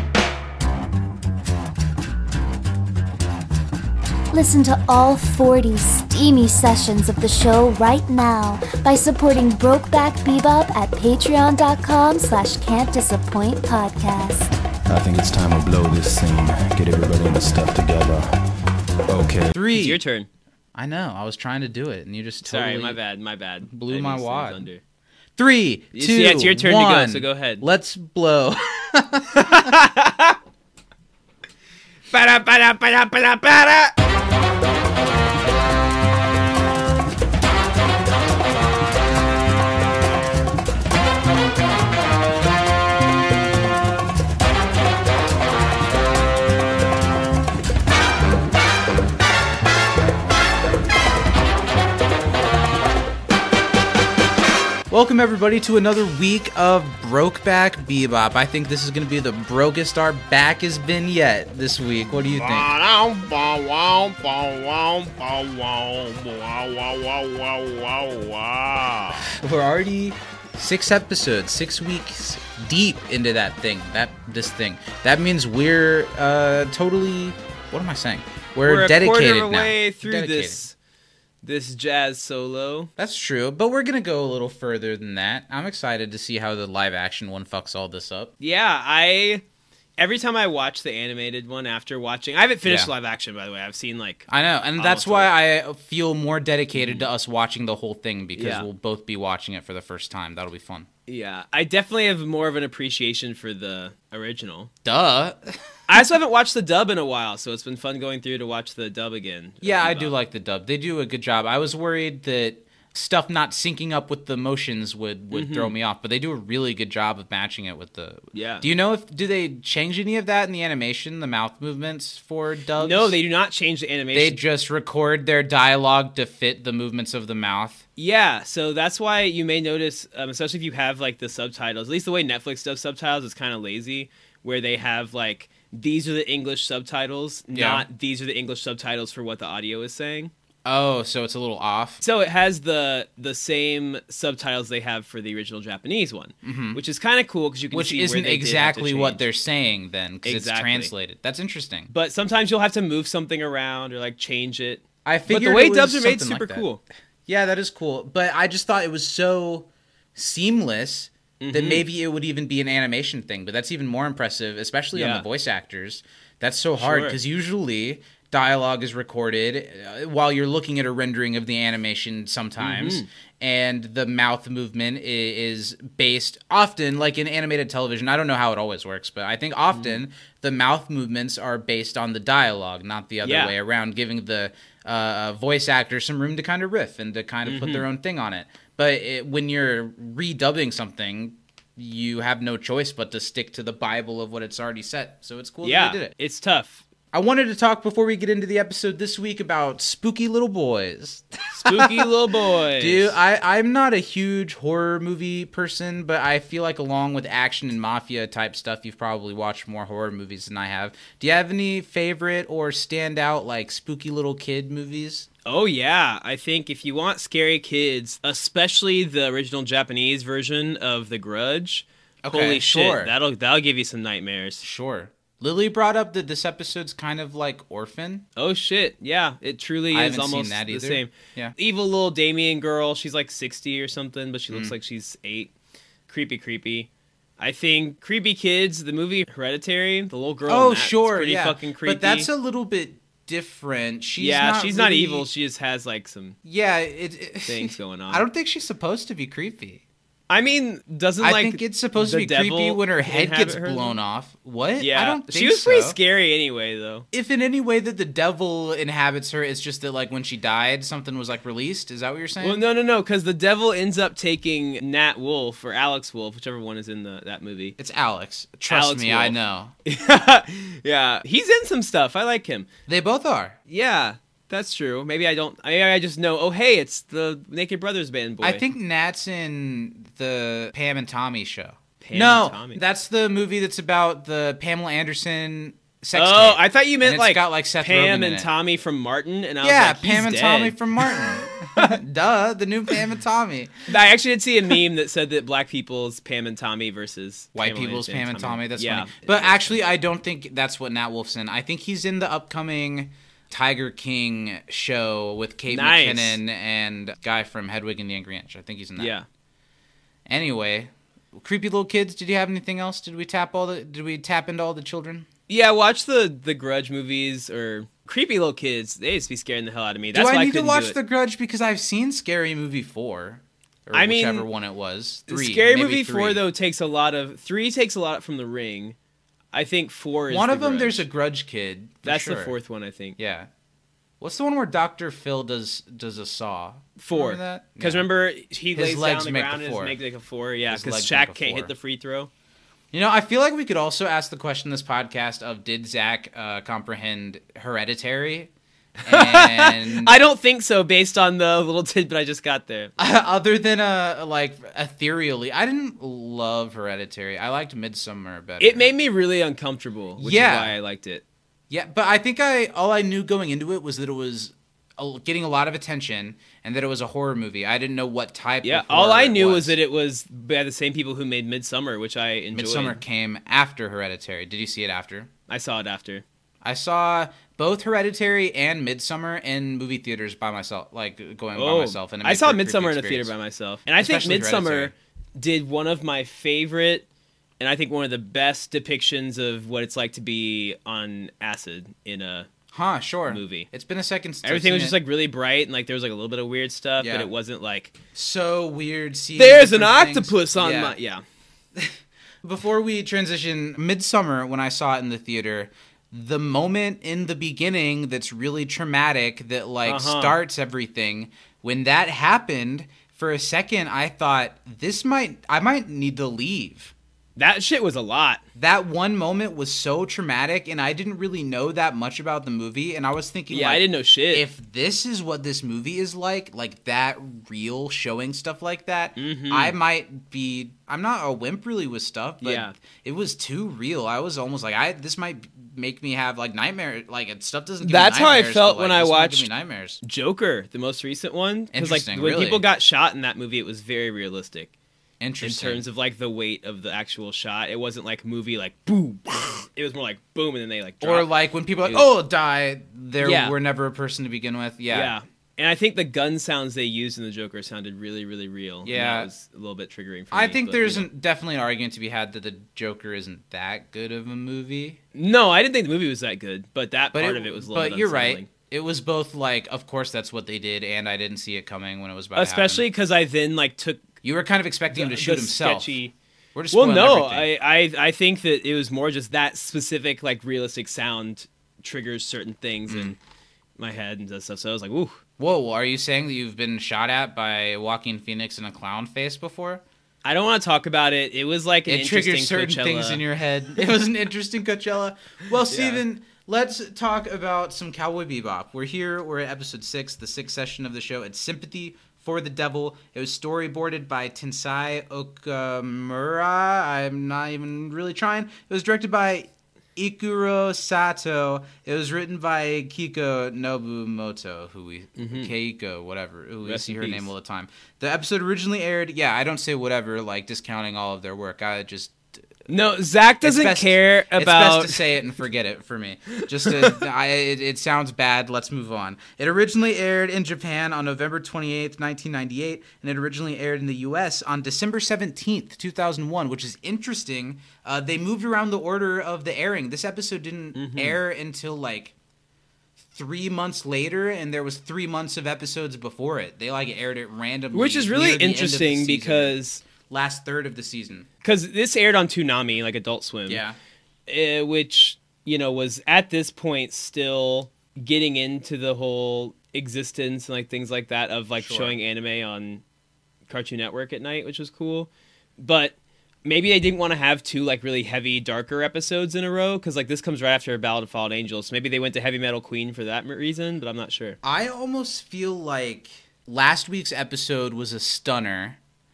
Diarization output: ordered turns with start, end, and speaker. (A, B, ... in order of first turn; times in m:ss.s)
0:04.3-0:14.5 A
0:14.9-0:18.4 B
0:19.1-0:19.6 B
0:19.5-0:20.0 C
0:19.7-0:20.3 D
0:20.7-0:23.0 C
0:22.4-0:24.8 D
0:23.6-0:24.7 C
0:25.4-0:29.8 C
0:25.9-0:27.6 D
0:29.3-0:30.4 D
0:32.1-0:33.9 D
0:54.9-1:02.7 C
1:02.3-1:09.3 D
1:09.2-1:20.6 C
1:18.6-1:20.7 D
1:21.4-1:22.9 D
1:23.0-1:28.3 C
1:28.4-1:29.4 D
1:30.0-1:35.3 D
1:32.6-1:32.9 C
1:34.3-1:40.9 C
1:36.7-1:37.1 D
1:38.4-1:38.7 D
1:41.1-1:44.7 D
1:44.8-1:46.0 C
1:45.9-1:50.1 D
1:49.6-2:03.1 C
1:55.3-1:55.7 D
1:58.3-1:58.6 D
2:02.8-2:04.4 D
2:04.1-2:07.8 C
2:08.0-2:20.3 D
2:17.5-2:17.8 C
2:20.6-2:22.0 C
2:22.0-2:29.2 D
2:26.4-2:26.8 C
2:27.7-2:31.9 C
2:30.2-2:30.9 D
2:31.9-2:36.8 D
2:35.0-2:36.6 C
2:37.3-3:16.1 C
2:41.4-2:41.8 D
2:44.9-2:45.2 D
2:46.8-2:47.2 D
2:52.6-2:53.1 D
3:03.2-3:03.5 D
3:07.4-3:07.9 D
3:15.6-3:16.8 D
3:17.1-3:35.3 C
3:21.5-3:23.2 D
3:35.4-3:44.6 D
3:42.2-3:43.1 C
3:44.6-3:48.2 C
3:48.4-3:55.5 D
3:49.9-3:51.5 C
3:54.5-3:54.7 C
3:56.1-3:56.9 D
3:57.4-4:02.3 D
4:00.5-4:05.3 C
4:04.2-4:06.4 D
4:06.4-4:09.8 C
4:07.4-4:08.2 D
4:10.3-4:14.0 D
4:11.2-4:16.0 C
4:14.8-4:17.0 D
4:17.1-4:22.6 C
4:22.4-4:27.8 D
4:27.8-4:29.7 C
4:28.7-4:32.7 D
4:32.9-4:33.6 C
4:33.7-4:38.6 D
4:38.4-4:48.5 C
4:42.0-4:42.8 D
4:46.1-4:52.0 D
4:49.6-4:53.9 C
4:53.9-4:59.8 D
4:57.6-5:09.1 C
5:05.7-5:06.4 D
5:09.0-5:09.2 D
5:10.2-5:15.3 C
5:15.5-5:21.0 D
5:20.1-5:26.4 C
5:23.9-5:24.5 D
5:25.3-5:29.0 D
5:29.5-5:31.0 D
5:30.3-5:32.5 C
5:32.0-5:33.2 D
5:33.2-5:33.5 C
5:34.2-5:38.1 C
5:37.0-5:42.3 D
5:38.7-5:40.0 C
5:40.7-5:41.7 C
5:42.9-5:48.5 C
5:49.0-5:50.2 C
5:49.0-5:52.9 D
5:53.0-5:58.9 C
5:58.6-6:01.2 D
6:00.2-6:00.7 C
6:01.7-6:09.7 C
6:08.6-6:13.0 D
6:12.5-6:15.3 C
6:15.5-6:16.2 D
6:16.6-6:23.3 C
6:21.6-6:27.0 D
6:24.0-6:24.9 C
6:27.6-6:32.5 D
6:32.7-6:35.0 C
6:33.3-6:33.7 D
6:34.4-6:38.0 D
6:37.0-6:37.3 C
6:38.1-6:41.0 C
6:39.4-6:41.2 D
6:41.7-6:56.9 C
6:49.8-6:50.4 D
6:57.4-6:58.4 D
6:58.6-7:20.0 C
7:03.5-7:04.4 D
7:09.2-7:09.8 D
7:12.4-7:12.7 D
7:17.8-7:19.5 D
7:20.0-7:24.7 D
7:21.7-7:22.6 C
7:25.2-7:25.8 C
7:25.4-7:31.3 D
7:31.0-7:35.1 C
7:33.2-7:33.6 D
7:34.9-7:41.1 D
7:38.8-7:39.3 C
7:40.3-7:45.0 C
7:45.1-7:48.5 D
7:47.1-7:52.8 C
7:52.4-7:54.1 D
7:54.2-7:55.9 C
7:54.9-7:56.1 D
7:56.5-7:57.5 C
7:56.7-8:03.2 D
8:02.9-8:03.2 C
8:03.8-8:05.2 D
8:05.4-8:09.8 C
8:10.2-8:13.2 D
8:11.8-8:42.4 C
8:15.7-8:16.0 D
8:35.2-8:35.5 D
8:36.6-8:37.3 D
8:42.7-8:45.1 D
8:43.4-9:02.1 C
8:46.6-8:47.0 D
9:00.8-9:01.2 D
9:03.1-9:11.3 C
9:07.7-9:09.8 D
9:11.4-9:13.6 D
9:13.5-9:13.8 C
9:14.3-9:22.8 D
9:21.6-9:22.0 C
9:23.5-9:34.4 D
9:34.4-9:38.8 C